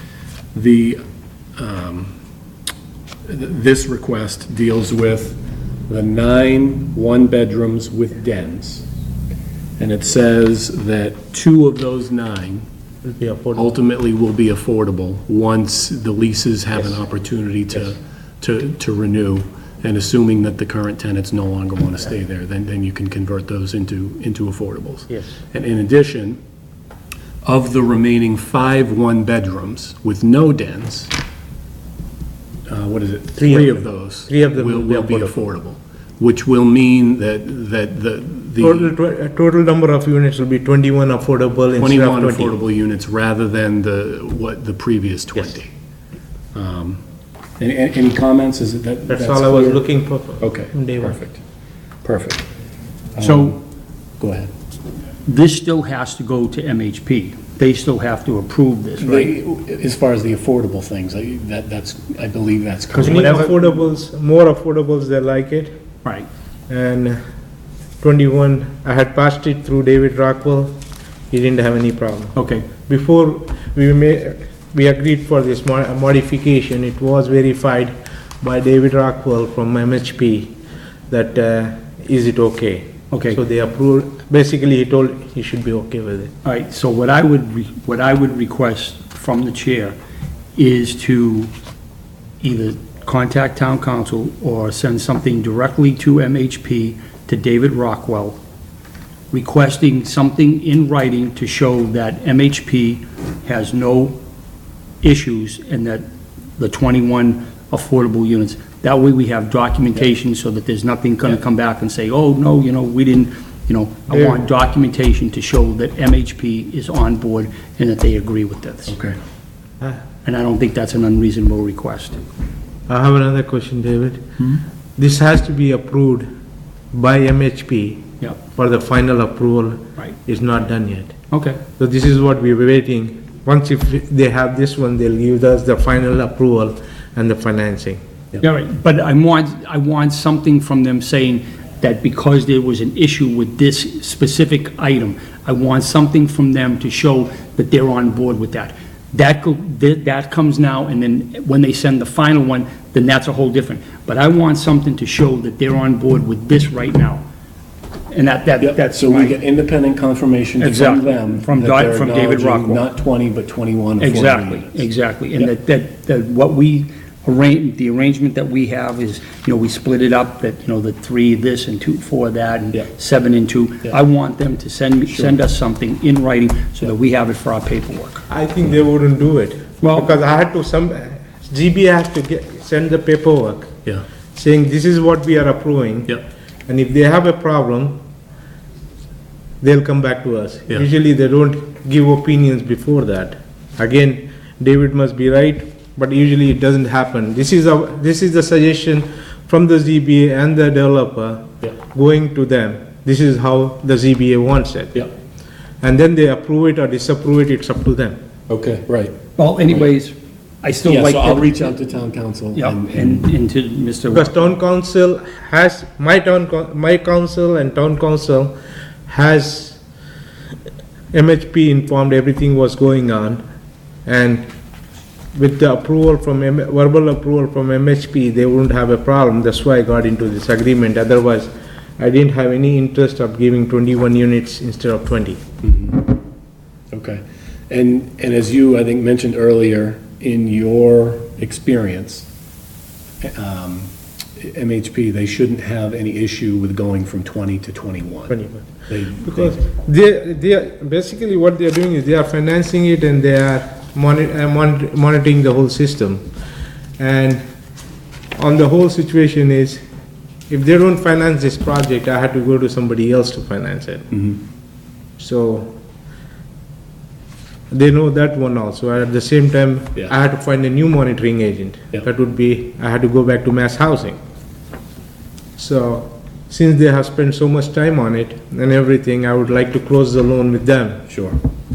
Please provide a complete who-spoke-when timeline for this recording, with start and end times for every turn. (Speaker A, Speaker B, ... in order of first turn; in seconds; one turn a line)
Speaker A: 0.5-1.0
Speaker A: 1.6-2.1
Speaker A: 3.2-8.9
Speaker A: 9.8-12.7
Speaker B: 13.0-13.7
Speaker A: 13.6-26.4
Speaker B: 25.1-25.4
Speaker A: 27.4-31.1
Speaker A: 32.7-38.9
Speaker B: 33.4-35.4
Speaker B: 38.6-42.6
Speaker A: 41.8-45.7
Speaker A: 46.5-47.0
Speaker A: 47.6-49.8
Speaker B: 49.1-51.2
Speaker A: 50.4-51.4
Speaker A: 52.0-52.5
Speaker A: 53.1-53.6
Speaker C: 53.2-53.6
Speaker A: 54.2-54.5
Speaker C: 55.2-59.3
Speaker A: 59.0-63.4
Speaker C: 62.9-63.6
Speaker B: 63.0-65.8
Speaker B: 66.7-67.2
Speaker B: 68.0-70.8
Speaker B: 71.3-80.5
Speaker C: 72.4-72.6
Speaker B: 81.1-86.3
Speaker C: 83.1-83.4
Speaker C: 86.4-90.0
Speaker C: 90.5-91.5
Speaker C: 92.4-98.4
Speaker C: 99.3-104.2
Speaker C: 105.0-106.0
Speaker C: 106.6-118.9
Speaker A: 118.9-119.2
Speaker C: 120.2-122.2
Speaker B: 122.9-126.3
Speaker B: 126.9-131.1
Speaker C: 131.3-131.6
Speaker B: 131.8-138.0
Speaker C: 138.4-157.2
Speaker C: 158.1-159.4
Speaker A: 158.6-164.8
Speaker C: 160.6-162.8
Speaker C: 164.0-178.2
Speaker B: 178.3-183.8
Speaker C: 179.8-180.1
Speaker B: 184.3-188.0
Speaker B: 189.6-205.1
Speaker B: 205.8-208.2
Speaker A: 208.5-209.2
Speaker C: 209.4-211.5
Speaker A: 210.8-213.2
Speaker C: 212.5-214.4
Speaker B: 214.1-218.6
Speaker B: 219.1-219.8
Speaker B: 221.1-223.4
Speaker B: 224.1-224.5
Speaker B: 225.3-235.4
Speaker A: 235.6-236.2
Speaker A: 236.9-242.3
Speaker A: 243.2-249.6
Speaker B: 248.3-256.3
Speaker B: 257.0-257.4
Speaker B: 258.4-259.8
Speaker B: 260.5-264.3
Speaker B: 265.2-265.7
Speaker B: 267.7-274.2
Speaker B: 275.6-281.1
Speaker A: 281.1-281.4